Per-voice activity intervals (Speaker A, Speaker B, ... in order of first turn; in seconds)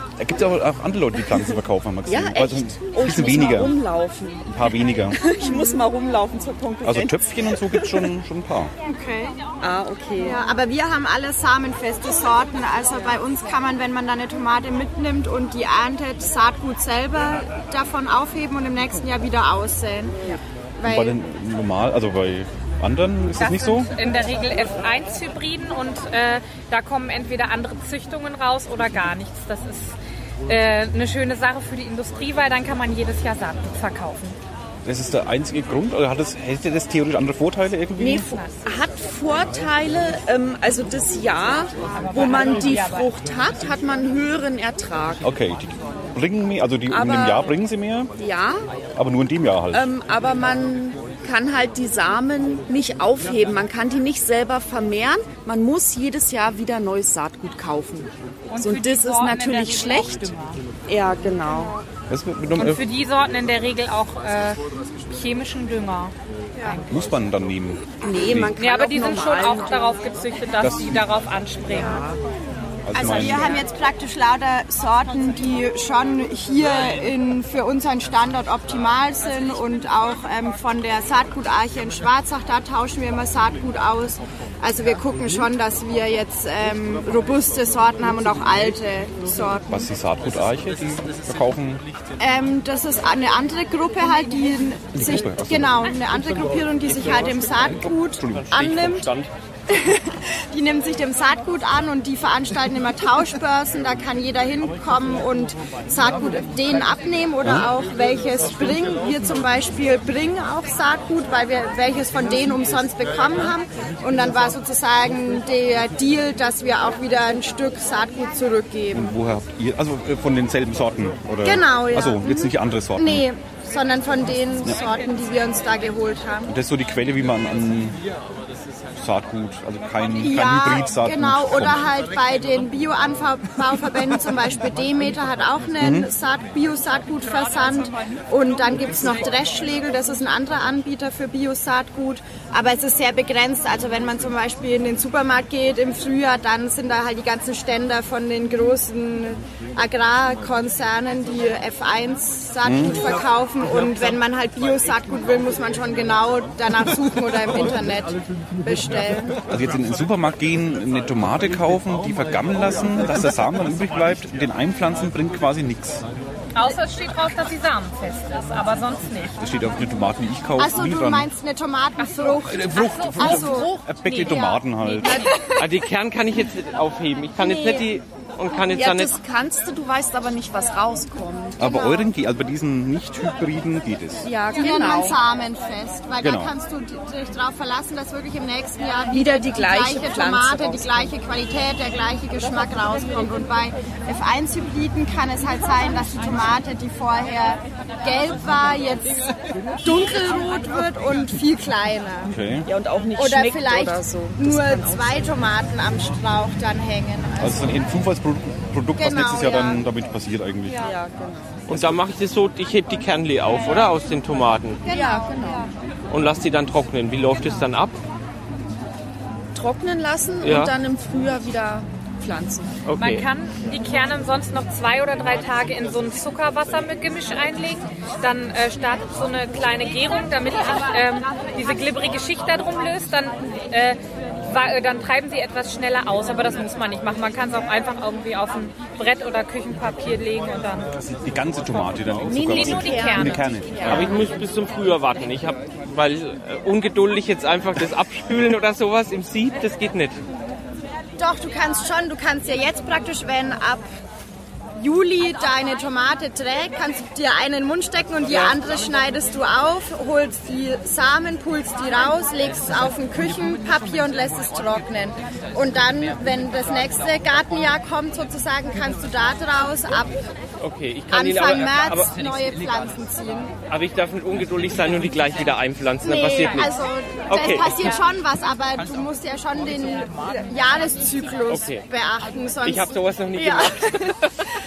Speaker A: 0.2-3.8, 4.5-5.2, 6.8-8.7, 20.8-23.9, 34.9-38.3, 45.2-48.1, 49.0-49.9, 62.1-62.8, 66.9-68.5, 70.6-71.0, 72.9-73.6, 89.7-91.8, 95.0-95.7, 98.2-98.5, 118.9-123.3, 126.5-128.0, 129.0-131.8, 135.8-136.1, 152.6-153.1, 159.5-166.0, 169.4-171.3, 172.5-175.3, 181.6-184.3, 186.2-186.5, 202.3-202.7, 207.4-210.8, 211.7-212.0, 241.0-244.2
Speaker B: 2.1-8.1, 9.6-10.4, 38.0-45.3, 46.9-47.6, 48.2-48.7, 49.7-60.3, 60.9-61.8, 68.0-70.0, 173.4-174.3, 178.6-181.9, 184.2-185.2, 189.1-191.1, 202.7-205.2, 210.7-211.6, 214.9-215.7, 219.6-222.8, 242.3-244.2
Speaker C: 5.4-5.9, 8.9-9.4, 10.2-20.2, 20.8-21.1, 72.9-89.8, 92.2-99.1, 99.7-119.1, 121.4-126.5, 130.2-159.4, 170.6-174.6, 177.4-177.9, 184.6-202.3, 203.2-207.8, 209.0-209.8, 214.9-215.3, 251.2-253.9, 254.8-270.3, 271.1-273.6, 276.0-284.2
Speaker D: 23.4-30.0, 30.5-34.4, 38.2-38.7, 42.0-43.1, 58.5-60.6, 62.5-66.1, 68.6-72.0, 166.6-169.3, 172.0-173.4, 223.0-240.9, 242.3-243.4
Speaker E: 96.9-99.3, 175.5-179.2, 211.7-214.8, 216.1-218.0, 220.4-220.7, 222.9-223.3, 243.8-250.2, 270.6-272.1, 273.7-276.7, 277.3-277.7, 281.5-281.9, 282.6-284.4